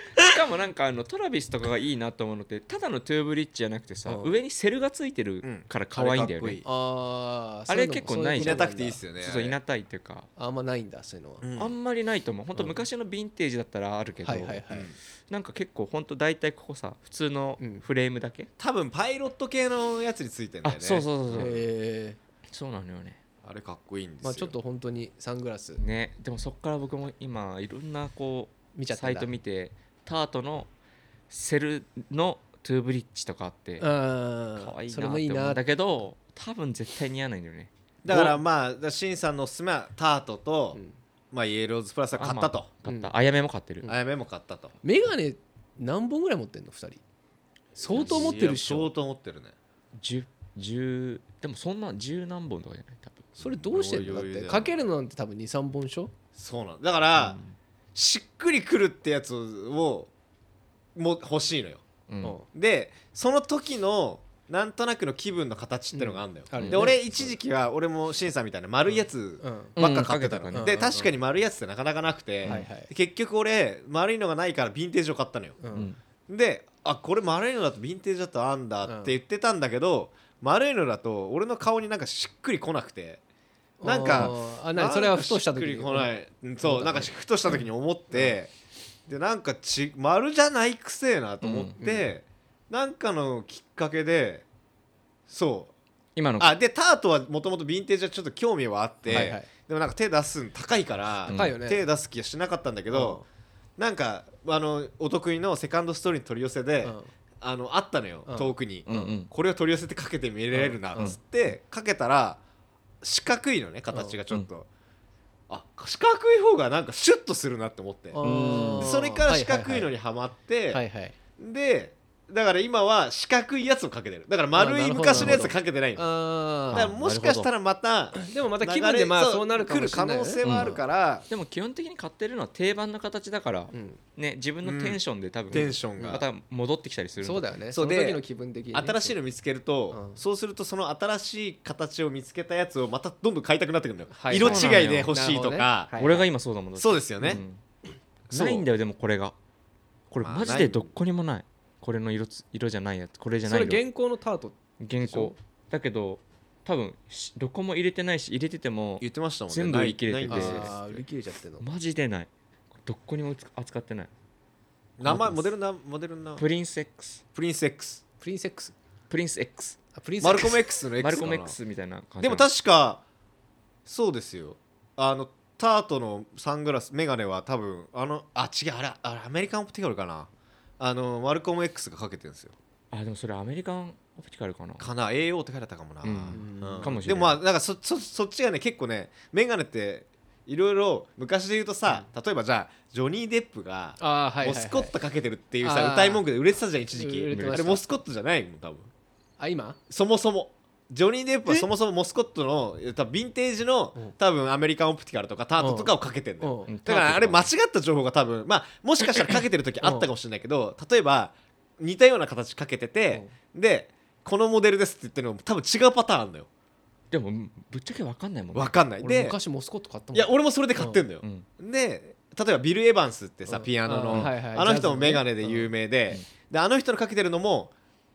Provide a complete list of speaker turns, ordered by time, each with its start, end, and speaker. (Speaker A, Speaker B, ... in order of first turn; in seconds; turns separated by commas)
Speaker A: 0.1-6.6, Speaker B: 4.1-4.3, Speaker C: 5.4-6.6, Speaker B: 6.6-9.0, Speaker A: 7.7-8.7, Speaker C: 8.3-9.6, Speaker A: 9.2-10.3, Speaker B: 10.4-11.4, Speaker C: 11.4-11.7, Speaker A: 11.6-14.6, Speaker B: 14.2-14.9, Speaker C: 14.7-14.9, Speaker A: 15.3-18.5, Speaker C: 18.6-21.5, Speaker A: 20.6-21.5, Speaker B: 21.4-22.2, Speaker A: 22.5-23.2, Speaker C: 23.4-24.5, Speaker B: 24.2-25.8, Speaker A: 25.8-30.7, Speaker B: 28.7-29.3, Speaker A: 31.3-33.9, Speaker B: 33.8-35.6, Speaker A: 34.6-38.4, Speaker C: 38.0-40.8, Speaker C: 41.3-42.7, Speaker A: 42.2-43.9, Speaker B: 42.9-43.1, Speaker C: 43.9-44.7, Speaker B: 44.8-47.0, Speaker B: 47.8-48.9, Speaker A: 47.9-48.4, Speaker C: 47.9-49.5, Speaker A: 50.0-53.3, Speaker C: 53.4-54.7, Speaker B: 53.4-56.1, Speaker C: 56.3-57.4, Speaker C: 57.9-60.1, Speaker C: 61.0-61.8, Speaker A: 62.1-62.4, Speaker C: 62.5-75.6, Speaker B: 65.9-67.2, Speaker A: 66.6-66.9, Speaker B: 69.4-69.8, Speaker A: 69.8-70.7, Speaker B: 70.5-71.1, Speaker B: 72.5-72.9, Speaker B: 75.6-75.9, Speaker A: 75.7-76.0, Speaker C: 76.3-83.2, Speaker B: 78.8-79.1, Speaker B: 83.8-87.1, Speaker C: 83.8-88.5, Speaker C: 89.1-94.5, Speaker A: 91.4-91.8, Speaker C: 95.3-95.7, Speaker A: 96.2-96.5, Speaker C: 96.4-103.2, Speaker B: 99.1-99.5, Speaker A: 101.3-101.6, Speaker B: 101.3-101.8, Speaker B: 102.9-103.2, Speaker C: 103.8-112.4, Speaker B: 106.8-107.1, Speaker B: 108.3-109.1, Speaker A: 108.9-109.3, Speaker B: 110.5-111.2, Speaker C: 113.0-114.7, Speaker C: 115.5-118.2, Speaker B: 118.1-119.9, Speaker A: 118.2-118.9, Speaker C: 118.7-120.8, Speaker B: 120.7-121.1, Speaker C: 121.4-126.0, Speaker B: 124.5-126.9, Speaker A: 125.1-125.5, Speaker A: 126.7-127.5, Speaker C: 126.7-131.2, Speaker B: 128.1-130.8, Speaker A: 130.4-130.8, Speaker A: 131.3-137.5, Speaker B: 133.7-134.0, Speaker C: 134.6-135.0, Speaker C: 135.5-136.2, Speaker B: 135.5-136.2, Speaker B: 137.2-139.2, Speaker C: 137.7-138.2, Speaker C: 138.7-145.9, Speaker B: 139.9-140.2, Speaker B: 144.1-146.2, Speaker A: 144.3-145.1, Speaker A: 145.9-147.6, Speaker C: 146.8-147.4, Speaker C: 148.3-148.7, Speaker A: 148.3-149.3, Speaker A: 150.1-153.8, Speaker C: 150.2-150.9, Speaker B: 153.5-155.3, Speaker A: 154.8-160.8, Speaker C: 159.0-160.8, Speaker B: 160.3-161.6, Speaker A: 161.6-162.3, Speaker A: 162.8-164.1, Speaker C: 165.0-166.4, Speaker A: 165.0-165.5, Speaker A: 166.4-167.2, Speaker C: 167.3-168.0, Speaker B: 168.2-168.7, Speaker A: 169.1-169.8, Speaker B: 169.9-170.6, Speaker C: 170.2-171.6, Speaker A: 171.0-172.5, Speaker C: 172.2-173.0, Speaker C: 173.8-182.5, Speaker A: 182.9-184.8, Speaker C: 184.8-198.9, Speaker A: 186.0-187.4, Speaker B: 186.3-186.9, Speaker B: 194.0-194.9, Speaker B: 195.6-196.2, Speaker B: 196.9-197.8, Speaker A: 197.3-197.7, Speaker B: 199.4-199.8, Speaker C: 199.9-216.5, Speaker B: 205.6-206.7, Speaker A: 206.7-207.5, Speaker B: 209.8-210.1, Speaker A: 217.1-218.7, Speaker C: 218.5-219.3, Speaker B: 219.0-221.0, Speaker C: 220.1-227.7, Speaker A: 221.2-221.5, Speaker B: 223.5-225.7